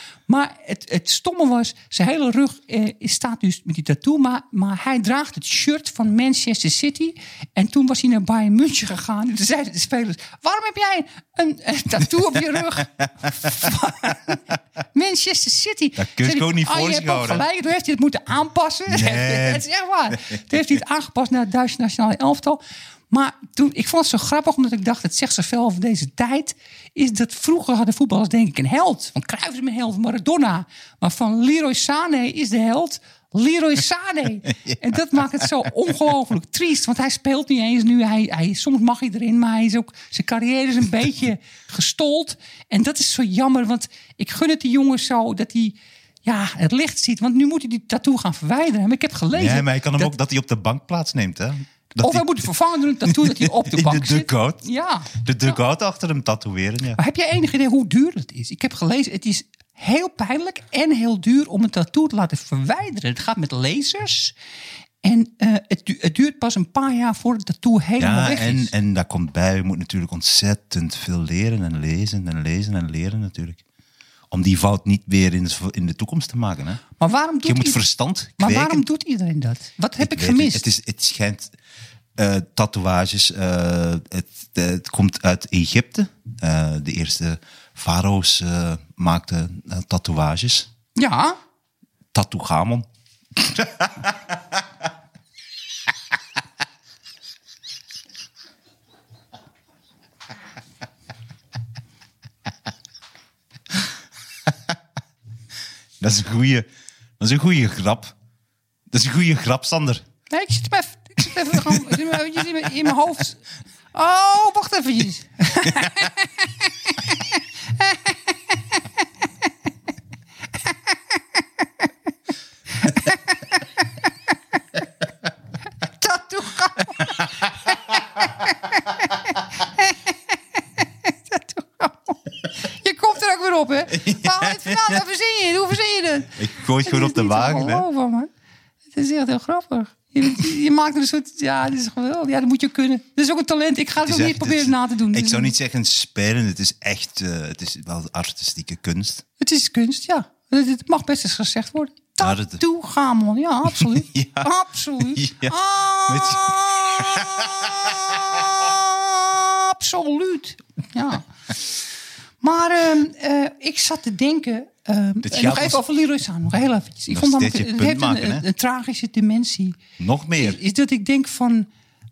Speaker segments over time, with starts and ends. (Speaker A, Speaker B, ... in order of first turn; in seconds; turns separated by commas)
Speaker A: 0.3-50.1, Speaker B: 16.0-17.4, Speaker B: 18.9-19.6, Speaker B: 49.3-52.4, Speaker A: 52.0-55.2, Speaker B: 53.0-57.0, Speaker A: 57.0-64.3, Speaker A: 65.0-68.7, Speaker B: 68.0-73.6, Speaker B: 74.3-76.8, Speaker A: 77.0-77.8, Speaker B: 77.4-78.8, Speaker A: 78.4-80.6, Speaker B: 80.0-81.5, Speaker B: 82.2-90.7, Speaker A: 91.0-91.4, Speaker B: 92.1-92.8, Speaker B: 93.4-94.2, Speaker B: 106.0-106.7, Speaker B: 107.2-108.1, Speaker B: 108.9-110.0, Speaker A: 110.3-113.4, Speaker A: 113.9-118.8, Speaker A: 122.8-123.6, Speaker A: 126.0-138.3, Speaker B: 133.9-135.0, Speaker B: 136.4-137.8, Speaker A: 138.9-145.5, Speaker B: 144.0-149.2, Speaker A: 149.4-161.2, Speaker B: 152.2-152.6, Speaker B: 153.7-155.6, Speaker B: 156.1-157.9, Speaker A: 162.4-169.8, Speaker B: 165.2-165.8, Speaker B: 167.1-168.4, Speaker B: 170.0-170.6, Speaker A: 170.4-171.7